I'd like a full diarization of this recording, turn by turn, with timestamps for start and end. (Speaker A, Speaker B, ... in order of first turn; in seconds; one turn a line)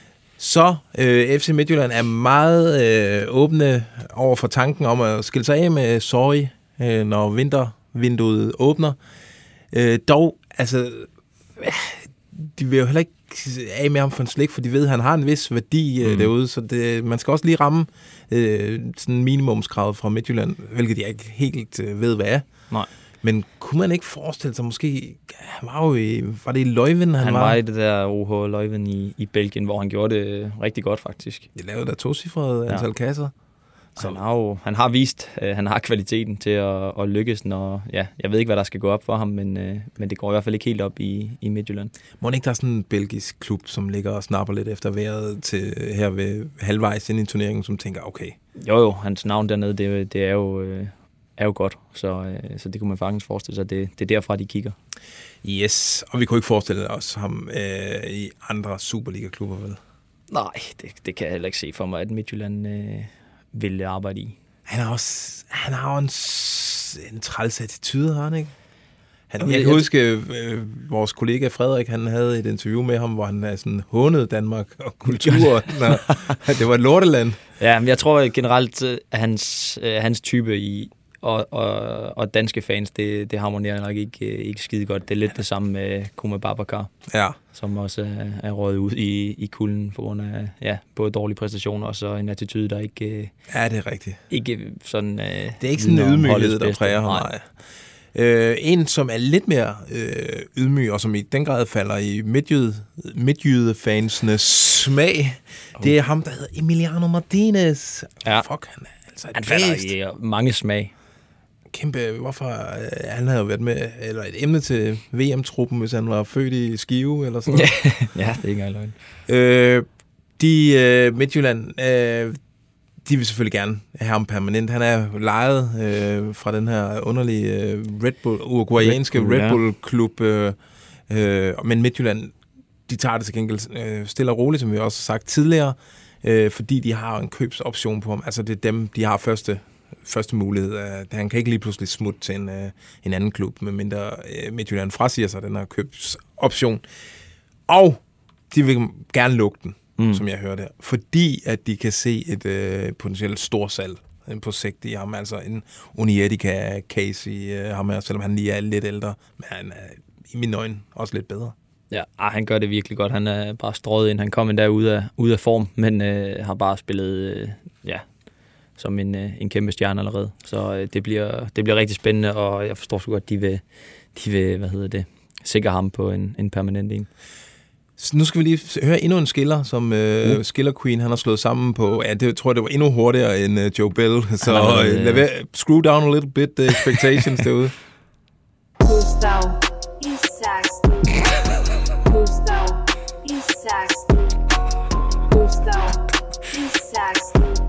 Speaker A: 0.4-9.0
Speaker A: 9.7-22.4
Speaker B: 16.0-16.3
Speaker A: 23.2-27.6
Speaker B: 27.2-31.5
Speaker A: 31.5-33.3
Speaker B: 34.0-41.9
Speaker A: 42.2-48.4
Speaker B: 48.6-54.7
Speaker A: 55.4-59.8
Speaker B: 60.3-64.4
Speaker A: 64.7-68.5
Speaker A: 69.3-77.4
Speaker B: 69.4-69.9
Speaker B: 75.1-76.3
Speaker B: 77.6-86.9
Speaker A: 87.1-87.3
Speaker B: 87.5-93.3
Speaker A: 93.5-94.2
Speaker B: 94.3-97.3
Speaker A: 95.6-97.5
Speaker A: 98.1-109.9
Speaker B: 109.3-110.9
Speaker A: 111.7-117.7
Speaker B: 117.5-118.9
Speaker A: 119.3-119.8
Speaker A: 120.4-122.4
Speaker A: 123.0-130.6
Speaker B: 128.8-129.6
Speaker A: 131.1-132.3
Speaker A: 132.9-146.8
Speaker A: 147.7-161.5
Speaker B: 150.0-150.2
Speaker B: 161.9-168.1
Speaker B: 168.8-173.6
Speaker B: 174.1-177.1
Speaker A: 178.0-187.7
Speaker B: 184.4-185.2
Speaker C: 188.8-191.3
Speaker C: 192.1-194.3
Speaker C: 195.3-197.5